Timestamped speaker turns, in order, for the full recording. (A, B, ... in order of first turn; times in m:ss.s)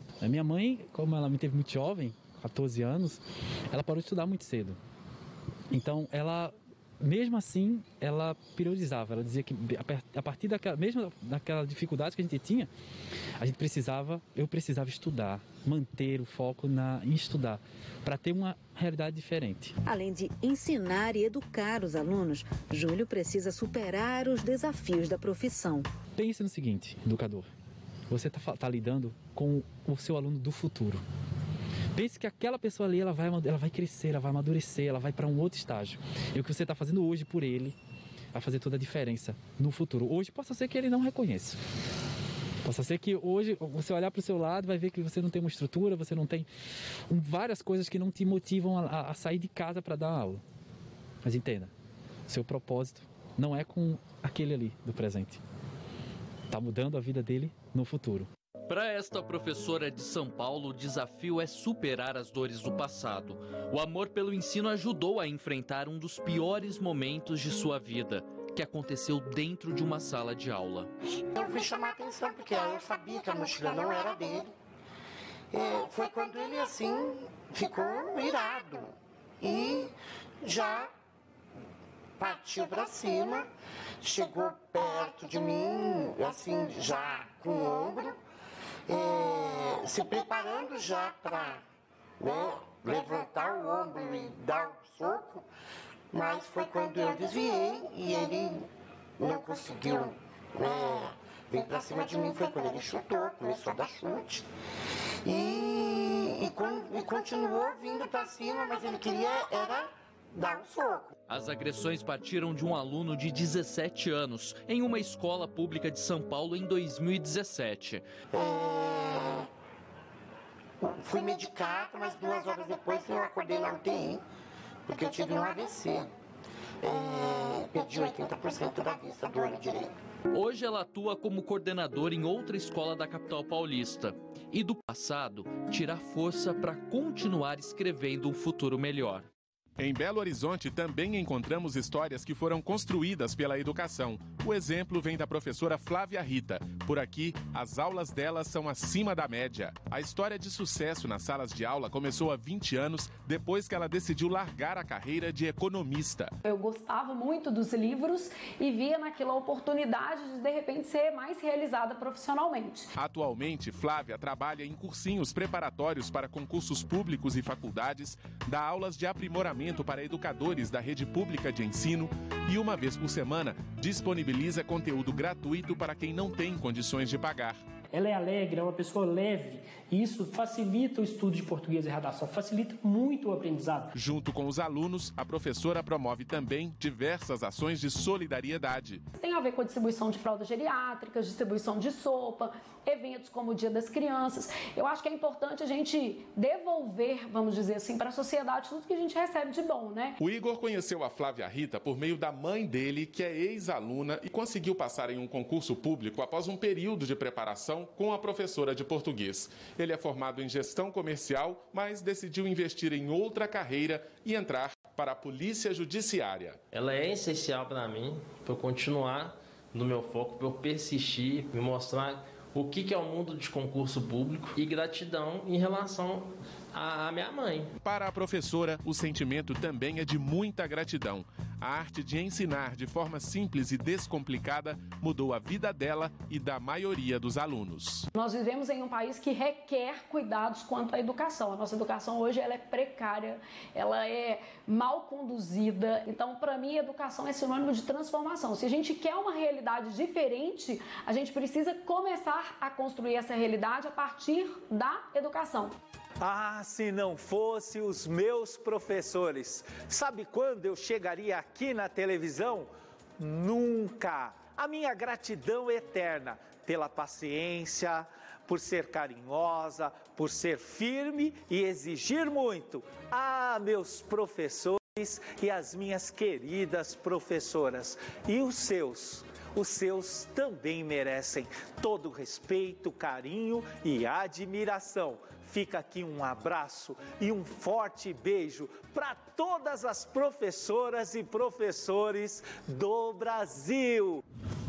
0:00.2-0:04.8 A
0:05.7-0:12.7 A
0:13.4-0:19.8 A
0:19.9-0:25.9 B
0:26.2-0:27.5 A
0:28.1-0:31.0 A
0:31.9-0:37.8 A
0:38.3-0:41.6 A
0:42.6-0:46.5 A
0:47.1-0:50.4 A
0:51.2-0:51.7 A
0:52.3-0:55.4 A
0:56.5-0:58.3 A
0:58.7-1:10.9 C
1:11.4-1:14.5 D
1:15.5-1:19.9 D
1:20.4-1:20.9 D
1:22.2-1:23.5 D
1:24.0-1:28.2 D
1:28.9-1:31.6 D
1:32.2-1:35.4 D
1:36.1-1:38.7 D
1:39.2-1:44.4 D
1:45.2-1:51.1 D
1:51.3-1:58.0 C
1:58.4-1:59.3 D
2:00.8-2:04.2 D
2:04.9-2:06.1 D
2:06.8-2:09.9 D
2:10.3-2:19.3 C
2:19.8-2:36.3 E
2:36.4-2:42.9 F
2:43.0-2:57.6 E
2:58.5-3:03.9 G
3:03.9-3:09.0 E
3:09.2-3:20.2 F
3:20.2-3:36.6 E
3:36.7-3:47.7 H
3:47.8-3:58.1 E
3:58.1-4:15.7 F
4:16.2-4:54.2 I